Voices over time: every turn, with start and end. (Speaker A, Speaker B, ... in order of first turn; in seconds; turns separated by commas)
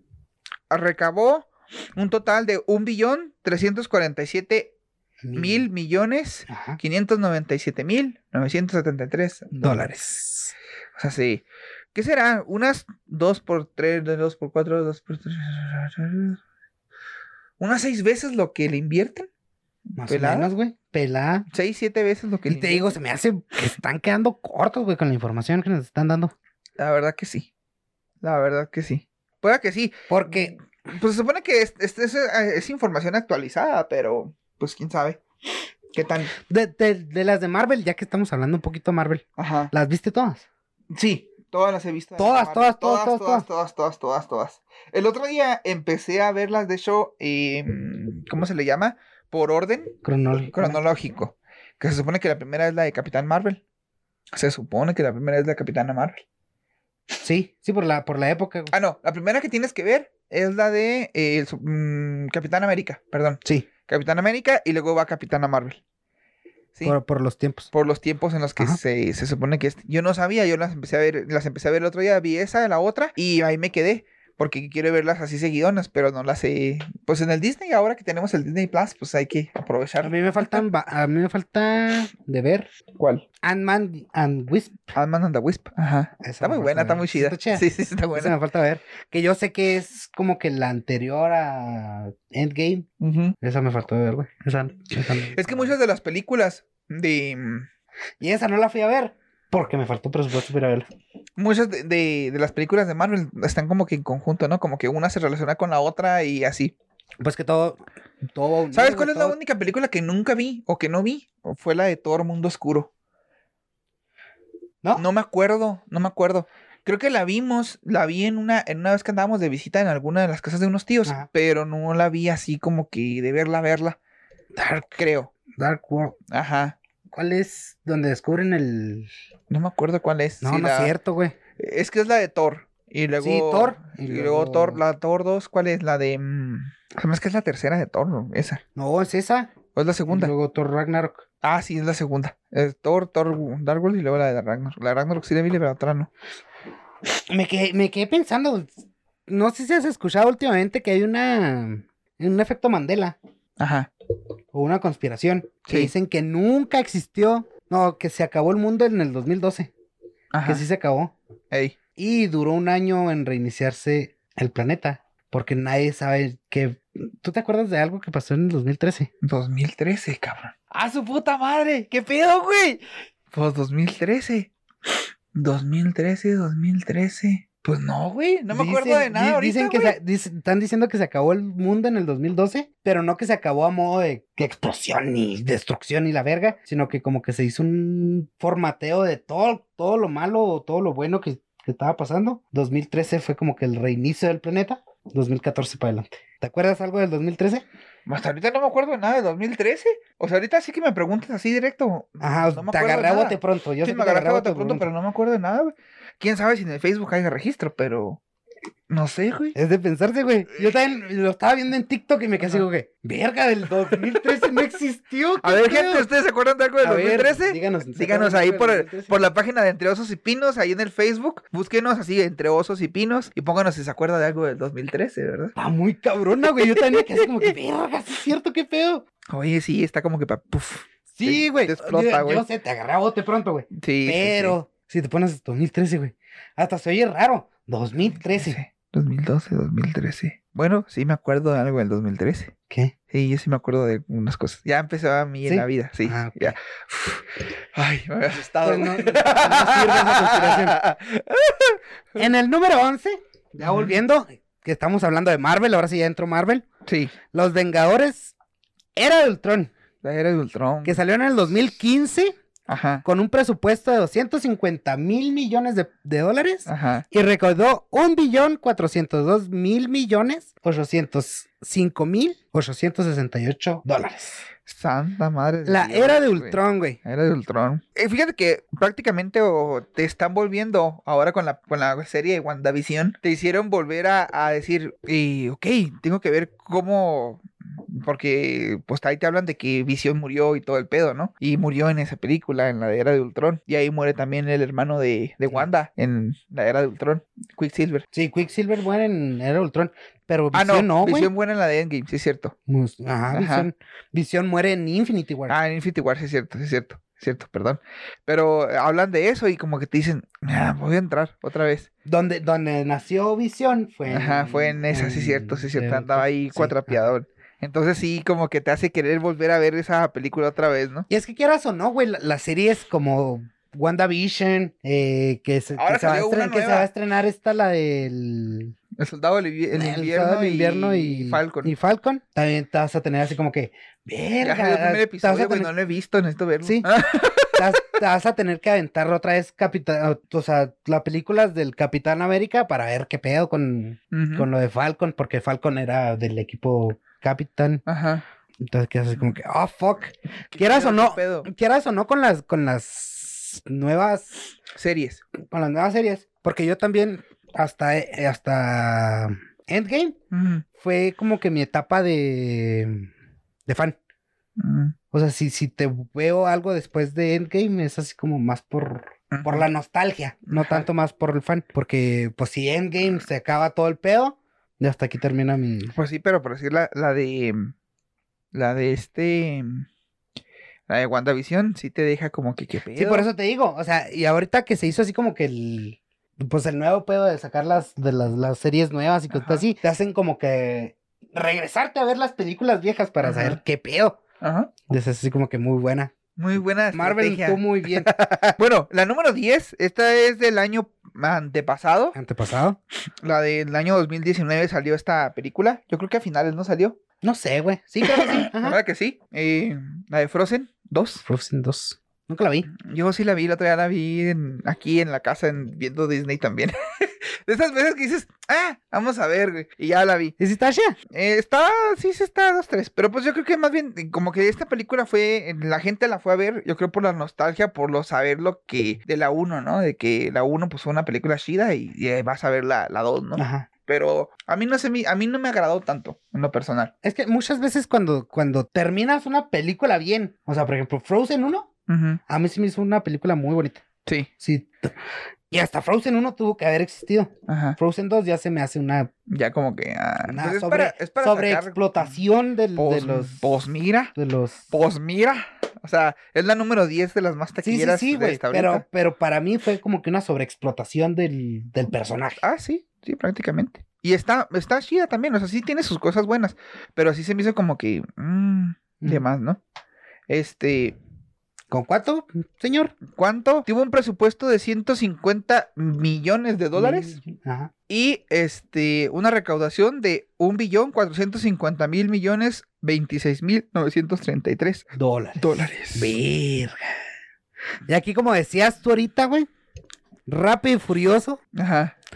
Speaker A: 0.7-4.7, Speaker B: 5.2-5.7, Speaker A: 5.3-10.0, Speaker B: 6.5-6.8, Speaker B: 9.6-10.5, Speaker A: 10.9-16.4, Speaker A: 17.6-19.3, Speaker B: 20.0-21.5, Speaker A: 20.0-20.5, Speaker A: 21.5-22.9, Speaker B: 22.5-26.3, Speaker A: 26.8-27.5, Speaker A: 28.2-35.2, Speaker B: 30.1-30.6, Speaker A: 35.9-36.3, Speaker B: 36.4-40.5, Speaker A: 39.4-39.7, Speaker A: 40.9-49.9, Speaker B: 42.2-43.5, Speaker B: 50.0-50.8, Speaker A: 50.5-53.6, Speaker A: 54.3-56.2, Speaker B: 57.2-58.7, Speaker A: 58.7-65.8, Speaker B: 66.8-67.7, Speaker A: 67.7-80.6, Speaker B: 80.0-82.7, Speaker A: 83.0-83.2, Speaker B: 83.4-84.9, Speaker A: 84.9-88.3, Speaker B: 86.2-92.9, Speaker A: 93.0-93.3, Speaker B: 93.4-95.7, Speaker A: 95.2-97.7, Speaker B: 98.2-100.9, Speaker A: 101.4-106.7, Speaker B: 107.2-107.8, Speaker B: 108.3-109.4, Speaker A: 108.7-112.9, Speaker A: 115.0-124.0, Speaker B: 124.5-126.1, Speaker A: 124.9-125.3, Speaker A: 126.3-126.8, Speaker B: 127.1-129.1, Speaker A: 129.5-130.9, Speaker B: 130.4-131.3, Speaker A: 131.6-138.6, Speaker B: 133.2-134.8, Speaker B: 138.7-139.5, Speaker A: 139.7-140.3, Speaker B: 140.1-141.2, Speaker A: 141.4-146.1, Speaker B: 147.3-153.2, Speaker A: 153.6-153.9, Speaker B: 154.5-159.7, Speaker A: 155.7-155.9, Speaker A: 160.3-160.6, Speaker B: 160.4-161.1, Speaker A: 161.5-161.8, Speaker B: 161.9-169.1, Speaker A: 169.2-174.5, Speaker A: 175.3-179.9, Speaker B: 178.5-197.6, Speaker A: 198.1-208.2, Speaker B: 202.2-204.9, Speaker A: 208.9-209.6, Speaker B: 209.5-216.1, Speaker A: 213.9-214.4, Speaker A: 215.4-225.5, Speaker B: 216.8-219.3, Speaker B: 225.6-229.0, Speaker A: 226.9-227.2, Speaker A: 229.3-232.4, Speaker B: 231.1-238.6, Speaker A: 233.8-234.6, Speaker A: 238.3-242.5, Speaker B: 242.7-242.9, Speaker A: 243.1-252.3, Speaker B: 245.4-246.6, Speaker B: 248.6-250.8, Speaker B: 252.2-256.6, Speaker A: 253.6-254.0, Speaker A: 256.9-257.1, Speaker B: 257.3-258.3, Speaker B: 258.9-259.7, Speaker A: 260.0-261.0, Speaker B: 260.8-262.4, Speaker A: 262.7-263.0, Speaker B: 263.0-274.4, Speaker A: 266.7-267.1, Speaker A: 274.6-298.1, Speaker B: 275.6-277.0, Speaker B: 298.1-301.3, Speaker A: 300.5-302.5, Speaker B: 302.7-305.5, Speaker A: 303.3-303.7, Speaker A: 305.5-311.9, Speaker B: 312.0-317.0, Speaker A: 314.1-321.1, Speaker B: 321.1-328.7, Speaker A: 325.8-326.9, Speaker A: 328.9-331.7, Speaker B: 329.7-335.7, Speaker A: 334.4-337.8, Speaker B: 336.6-336.9, Speaker B: 337.5-347.8, Speaker A: 344.1-344.5, Speaker A: 347.9-348.2, Speaker B: 348.6-354.4, Speaker A: 350.5-351.5, Speaker A: 354.7-355.2, Speaker B: 355.4-360.2, Speaker A: 360.3-360.6, Speaker B: 360.7-363.1, Speaker B: 363.7-364.0, Speaker A: 364.6-364.9, Speaker B: 365.1-375.9, Speaker A: 369.3-369.7, Speaker A: 370.5-370.9, Speaker A: 375.9-377.7, Speaker A: 378.5-379.9, Speaker A: 380.9-383.3, Speaker B: 382.9-394.2, Speaker A: 389.3-389.6, Speaker A: 393.2-393.6, Speaker A: 394.4-394.7, Speaker B: 394.9-396.1, Speaker A: 396.4-402.2, Speaker B: 396.9-398.5, Speaker B: 402.1-402.8, Speaker A: 403.2-407.0, Speaker B: 407.2-408.8, Speaker A: 408.0-411.2, Speaker B: 411.2-412.7, Speaker A: 412.7-420.3, Speaker B: 420.4-421.0, Speaker A: 421.1-436.9, Speaker B: 433.4-433.7, Speaker B: 437.0-441.7, Speaker A: 441.9-442.2, Speaker B: 442.3-443.8, Speaker B: 444.4-444.9, Speaker B: 445.5-449.1, Speaker A: 447.5-447.8, Speaker A: 449.3-452.2, Speaker B: 450.2-453.4, Speaker A: 452.7-454.1, Speaker B: 454.1-454.7, Speaker A: 454.7-458.8, Speaker B: 457.6-462.4, Speaker A: 462.4-469.6, Speaker A: 470.3-471.0, Speaker B: 471.7-472.9, Speaker A: 473.1-477.2, Speaker B: 476.7-477.7, Speaker A: 477.9-486.1, Speaker B: 484.9-486.9, Speaker B: 487.9-489.5, Speaker B: 490.3-491.4, Speaker A: 491.5-491.9